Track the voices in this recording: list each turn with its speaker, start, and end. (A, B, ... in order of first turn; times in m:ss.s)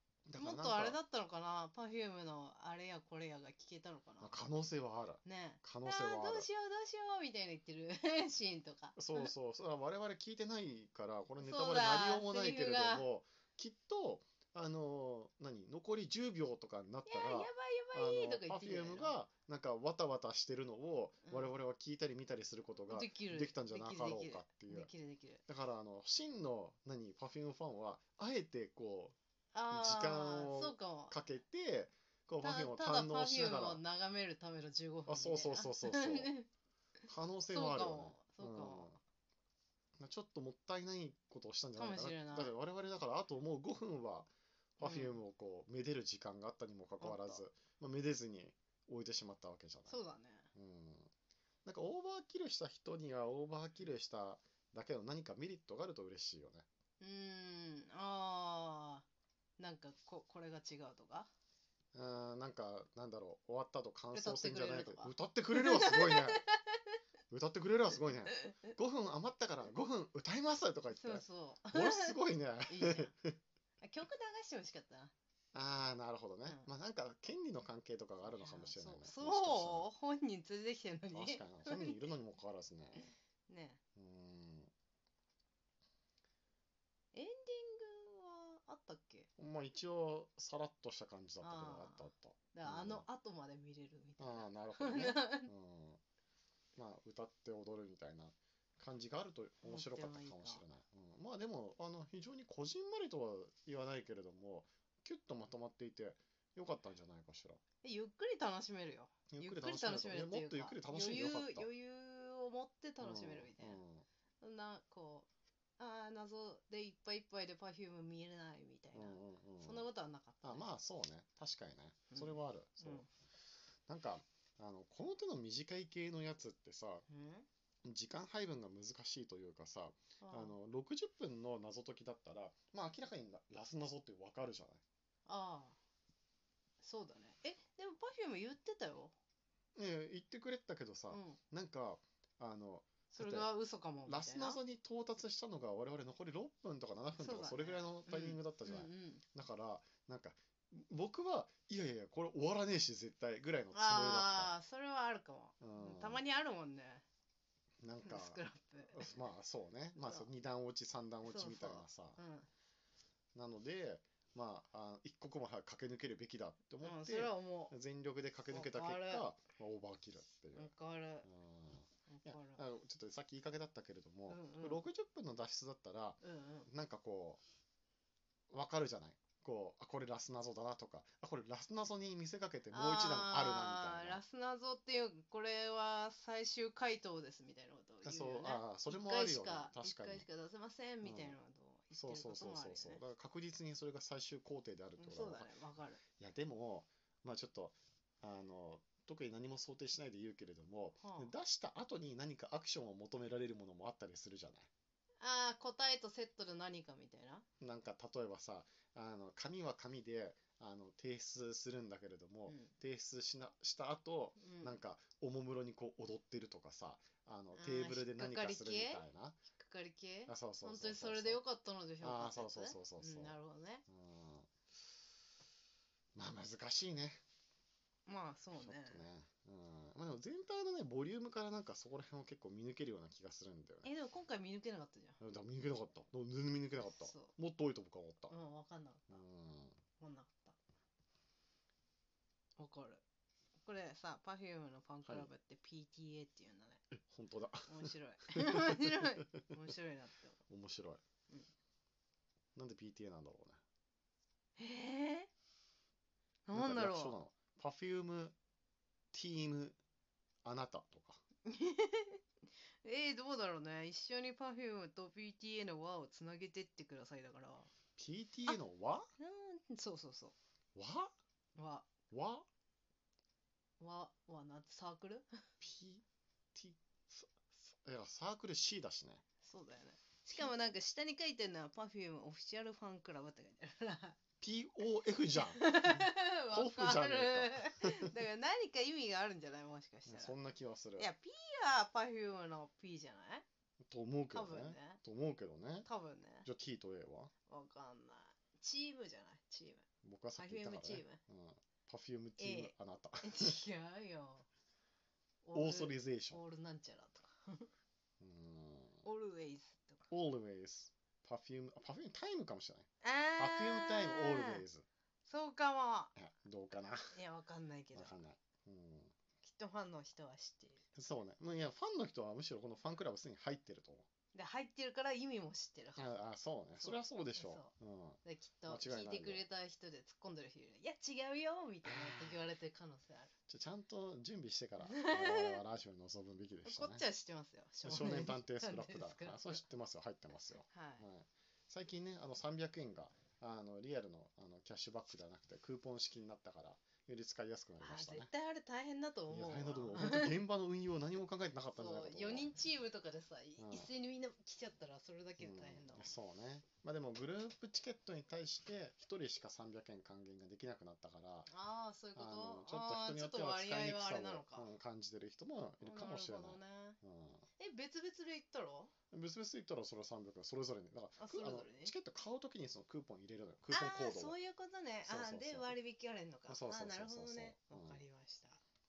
0:00.2-0:01.0 A
0:00.4-0:04.4 B
0:04.2-0:06.5 A
0:05.2-0:09.3 B
0:09.0-0:24.9 A
0:11.4-0:13.0 B
0:17.0-0:19.2 B
0:21.2-0:21.5 B
0:22.9-0:25.4 B
0:25.4-0:29.2 A
0:29.5-0:31.2 B
0:29.7-0:33.8 A
0:32.4-0:36.5 B
0:35.0-0:36.3 A
0:37.1-0:39.0 A
0:37.5-0:38.9 B
0:40.0-0:50.0 A
0:41.8-0:42.5 B
0:44.8-0:45.2 B
0:47.0-0:47.4 B
0:49.9-0:50.5 B
0:50.5-0:51.1 A
0:51.6-0:56.6 A
0:57.0-0:59.0 B
0:59.6-1:01.3 B
1:01.9-1:06.4 A
1:04.1-1:06.8 B
1:07.3-1:13.4 A
1:08.2-1:08.7 B
1:10.9-1:13.1 B
1:13.8-1:15.1 B
1:15.5-1:19.9 A
1:18.3-1:22.0 B
1:21.1-1:23.1 A
1:22.9-1:23.8 B
1:23.9-1:24.7 A
1:27.1-1:29.3 B
1:29.4-1:33.0 A
1:31.4-1:35.5 B
1:34.2-1:36.0 A
1:36.8-1:47.6 A
1:39.6-1:40.6 B
1:47.8-1:53.8 B
1:49.3-1:51.7 A
1:53.0-1:54.0 A
1:54.4-2:00.7 B
1:58.9-1:59.8 A
2:00.4-2:03.0 A
2:02.1-2:03.1 B
2:03.9-2:07.0 A
2:07.1-2:07.5 B
2:07.8-2:14.8 A
2:10.2-2:10.6 B
2:15.2-2:15.8 B
2:16.8-2:19.1 B
2:19.8-2:23.5 A
2:21.1-2:21.4 B
2:23.1-2:24.6 B
2:24.0-2:34.5 A
2:27.2-2:29.2 B
2:33.7-2:37.0 B
2:35.6-2:36.2 A
2:37.8-2:42.2 A
2:38.0-2:39.0 B
2:40.0-2:40.3 B
2:41.2-2:42.5 B
2:43.3-2:50.7 A
2:46.8-2:47.7 B
2:48.5-2:49.2 B
2:50.5-2:51.3 B
2:51.2-2:57.4 A
2:52.1-2:52.6 B
2:54.3-2:54.8 B
2:56.2-2:56.7 B
2:58.5-3:04.2 A
3:02.7-3:13.0 B
3:08.0-3:10.2 A
3:11.0-3:11.4 A
3:11.9-3:15.5 A
3:15.0-3:16.0 B
3:16.2-3:24.7 A
3:21.0-3:21.3 B
3:25.2-3:27.4 B
3:27.6-3:39.4 A
3:34.4-3:34.8 B
3:37.5-3:43.8 B
3:40.3-3:41.4 A
3:42.0-3:43.4 A
3:43.9-3:44.5 A
3:46.2-3:47.2 A
3:48.0-3:49.0 B
3:48.5-3:53.9 A
3:53.8-3:55.2 B
3:55.2-3:58.4 A
3:56.8-3:57.3 B
3:58.3-3:59.2 B
3:59.1-3:59.8 A
4:00.0-4:00.6 B
4:02.6-4:03.0 B
4:03.6-4:06.8 B
4:05.0-4:05.3 A
4:06.9-4:09.4 A
4:07.7-4:10.4 B
4:10.5-4:11.0 A
4:12.6-4:13.6 A
4:14.6-4:15.3 B
4:16.5-4:17.2 B
4:16.5-4:18.3 A
4:19.1-4:19.8 A
4:20.4-4:21.2 A
4:21.4-4:22.2 B
4:22.8-4:27.7 B
4:28.0-4:29.1 A
4:29.2-4:30.3 B
4:30.7-4:31.1 A
4:31.6-4:31.9 B
4:32.1-4:32.4 A
4:33.8-4:35.4 B
4:35.6-4:39.2 A
4:39.4-4:44.2 B
4:44.4-4:48.1 A
4:45.3-4:50.4 B
4:50.0-4:51.1 A
4:51.0-4:53.4 B
4:53.8-4:55.9 A
4:54.3-4:55.0 B
4:55.8-4:56.5 B
4:56.4-4:57.3 A
4:57.5-4:59.8 B
5:00.0-5:03.6 A
5:00.4-5:01.2 B
5:02.4-5:04.4 B
5:05.4-5:07.7 B
5:05.5-5:06.4 A
5:08.2-5:09.0 A
5:09.0-5:10.1 B
5:10.1-5:14.8 A
5:13.0-5:14.6 B
5:15.2-5:16.1 B
5:16.2-5:17.2 A
5:17.1-5:18.1 B
5:17.9-5:19.1 A
5:19.4-5:20.8 B
5:20.9-5:24.1 A
5:24.3-5:26.2 B
5:26.0-5:29.4 A
5:26.8-5:27.7 B
5:28.2-5:33.3 B
5:31.8-5:32.4 A
5:33.5-5:37.0 A
5:34.8-5:35.6 B
5:36.6-5:39.6 B
5:37.8-5:48.3 A
5:40.7-5:41.0 B
5:47.8-5:50.4 B
5:49.3-5:52.5 A
5:51.7-5:56.1 B
5:53.6-5:53.9 A
5:55.4-6:01.5 A
6:01.5-6:04.7 B
6:02.1-6:07.4 A
6:05.8-6:07.0 B
6:07.6-6:08.9 B
6:09.1-6:14.4 A
6:11.2-6:11.9 B
6:13.7-6:18.6 B
6:15.0-6:15.8 A
6:16.5-6:18.0 A